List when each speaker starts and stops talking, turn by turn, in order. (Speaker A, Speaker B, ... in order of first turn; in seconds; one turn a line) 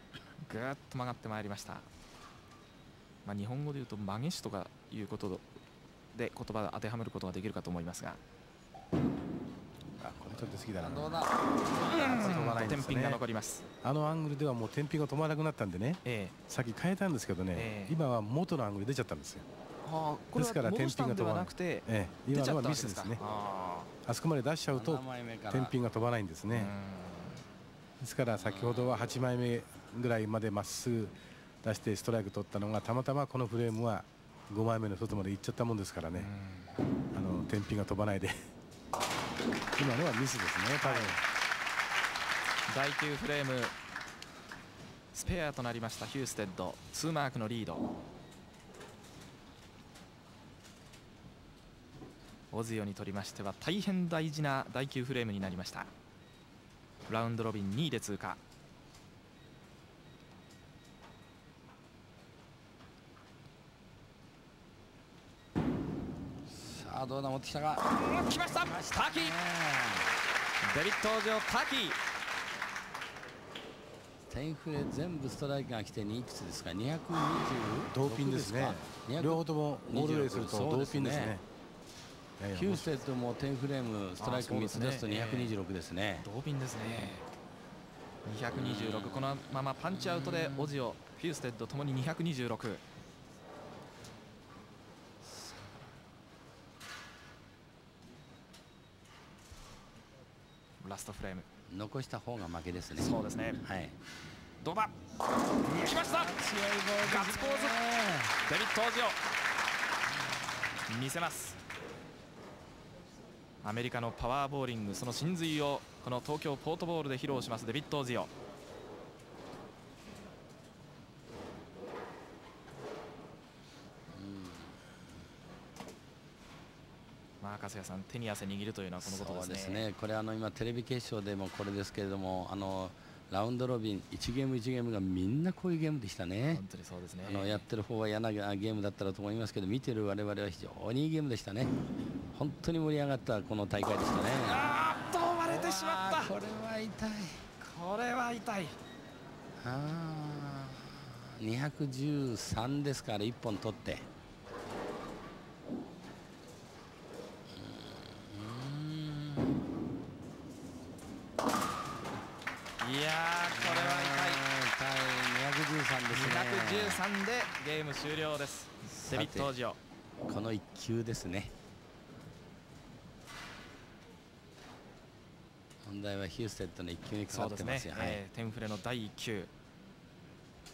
Speaker A: 0.4-1.9
Speaker A: 3.2-5.5
Speaker A: 6.1-8.2
Speaker B: 10.0-11.2
Speaker C: 10.0-12.6
Speaker A: 11.8-13.7
Speaker B: 12.0-13.2
Speaker B: 13.8-19.5
Speaker A: 16.0-16.3
Speaker A: 17.5-18.0
Speaker A: 19.8-23.9
Speaker B: 20.3-23.2
Speaker B: 24.1-26.8
Speaker C: 24.7-25.8
Speaker A: 26.5-27.4
Speaker B: 28.0-36.3
Speaker C: 28.4-28.9
Speaker A: 36.1-36.7
Speaker B: 37.1-38.4
Speaker B: 39.8-41.2
Speaker A: 40.8-41.2
Speaker A: 42.7-43.7
Speaker A: 45.1-47.9
Speaker A: 52.5-55.9
Speaker A: 57.1-58.4
Speaker C: 66.5-70.1
Speaker A: 67.9-69.4
Speaker A: 70.6-72.0
Speaker C: 74.3-81.4
Speaker B: 77.9-81.4
Speaker B: 82.4-83.0
Speaker C: 82.5-86.3
Speaker A: 84.2-85.5
Speaker A: 86.2-87.2
Speaker A: 88.2-92.8
Speaker C: 88.5-90.8
Speaker A: 100.8-101.5
Speaker C: 101.7-104.0
Speaker A: 103.0-103.6
Speaker A: 104.6-104.9
Speaker C: 105.6-108.4
Speaker A: 105.7-106.5
Speaker A: 107.0-107.8
Speaker A: 108.4-109.2
Speaker A: 110.9-111.6
Speaker A: 113.6-118.3
Speaker C: 124.1-124.8
Speaker A: 127.4-129.9
Speaker C: 129.0-136.6
Speaker A: 136.5-137.6
Speaker C: 137.2-141.7
Speaker C: 142.3-144.7
Speaker A: 144.4-146.3
Speaker C: 145.4-147.4
Speaker A: 147.6-148.8
Speaker C: 149.6-154.1
Speaker C: 157.5-159.6
Speaker A: 162.8-164.4
Speaker C: 163.5-167.0
Speaker A: 166.1-169.8
Speaker C: 169.1-169.6
Speaker C: 170.3-171.5
Speaker C: 175.8-178.2
Speaker A: 177.3-179.5